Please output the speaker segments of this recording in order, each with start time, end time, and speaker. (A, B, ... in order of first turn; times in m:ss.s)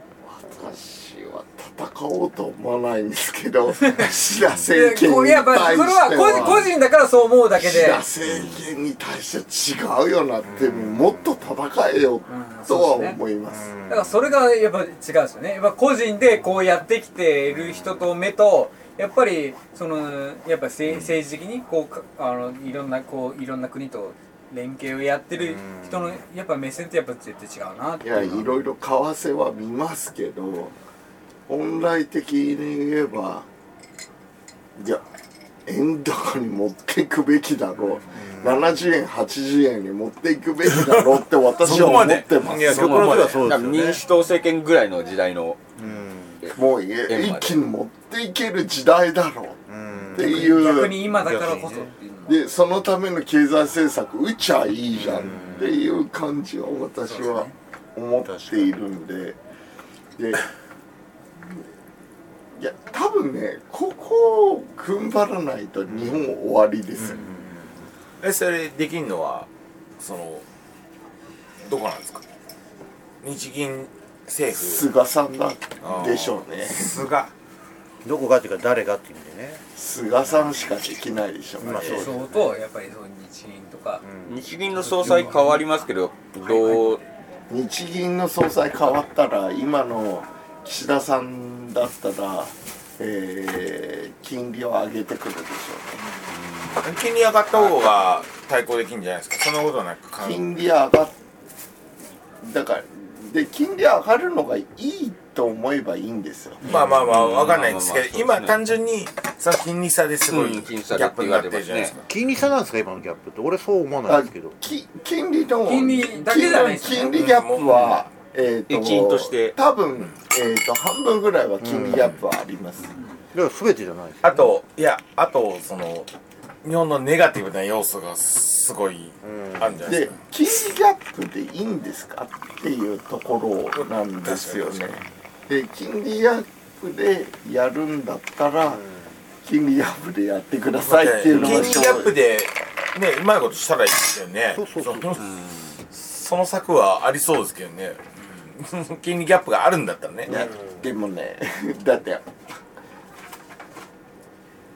0:00.2-0:06.8 A
0:04.7-0:08.0 B
0:07.6-0:13.7 A
0:08.3-0:08.6 C
0:10.4-0:11.5 D
0:12.3-0:13.2 B
0:13.5-0:14.3 D
0:13.9-0:28.4 B
0:17.5-0:18.0 D
0:25.4-0:26.2 D
0:28.0-0:30.7 A
0:31.5-0:33.5 A
0:34.8-0:35.0 A
0:35.7-0:43.2 A
0:38.1-0:38.8 D
0:40.7-0:43.5 E
0:41.6-0:44.0 D
0:42.7-0:45.6 C
0:45.8-0:46.5 D
0:46.5-0:49.6 A
0:47.1-0:47.6 C
0:49.7-0:52.0 D
0:50.1-0:51.0 A
0:50.2-0:52.4 B
0:52.3-0:59.4 A
0:54.9-0:56.0 D
0:57.0-0:57.5 B
0:58.2-0:58.8 D
1:00.2-1:00.5 A
1:02.6-1:07.3 A
1:05.9-1:06.3 D
1:07.0-1:07.9 D
1:08.2-1:09.5 E
1:10.0-1:10.4 E
1:11.6-1:12.2 E
1:13.2-1:14.9 E
1:14.6-1:17.1 A
1:15.8-1:17.3 E
1:18.0-1:19.6 D
1:19.8-1:22.2 A
1:21.6-1:22.4 D
1:21.8-1:24.0 B
1:24.0-1:25.6 D
1:24.3-1:27.0 C
1:24.8-1:25.6 B
1:26.4-1:27.0 B
1:27.5-1:36.1 A
1:36.3-1:36.9 C
1:36.8-1:40.5 E
1:40.2-1:41.2 A
1:42.4-1:46.7 A
1:46.6-1:52.1 E
1:46.7-1:48.6 C
1:50.3-1:52.0 C
1:52.1-1:54.6 D
1:54.1-2:03.0 A
1:55.6-1:57.2 B
1:57.1-1:58.0 E
1:57.6-1:57.9 C
1:58.7-1:59.6 C
2:01.6-2:02.2 D
2:03.3-2:04.6 D
2:04.2-2:06.1 E
2:06.6-2:10.1 E
2:09.2-2:10.0 D
2:09.8-2:18.8 A
2:13.7-2:14.9 E
2:18.6-2:19.2 D
2:19.4-2:22.2 A
2:20.8-2:25.2 E
2:21.3-2:22.1 D
2:24.5-2:25.2 D
2:25.2-2:25.8 C
2:25.9-2:28.0 E
2:28.6-2:30.4 E
2:30.3-2:30.9 D
2:30.3-2:32.2 A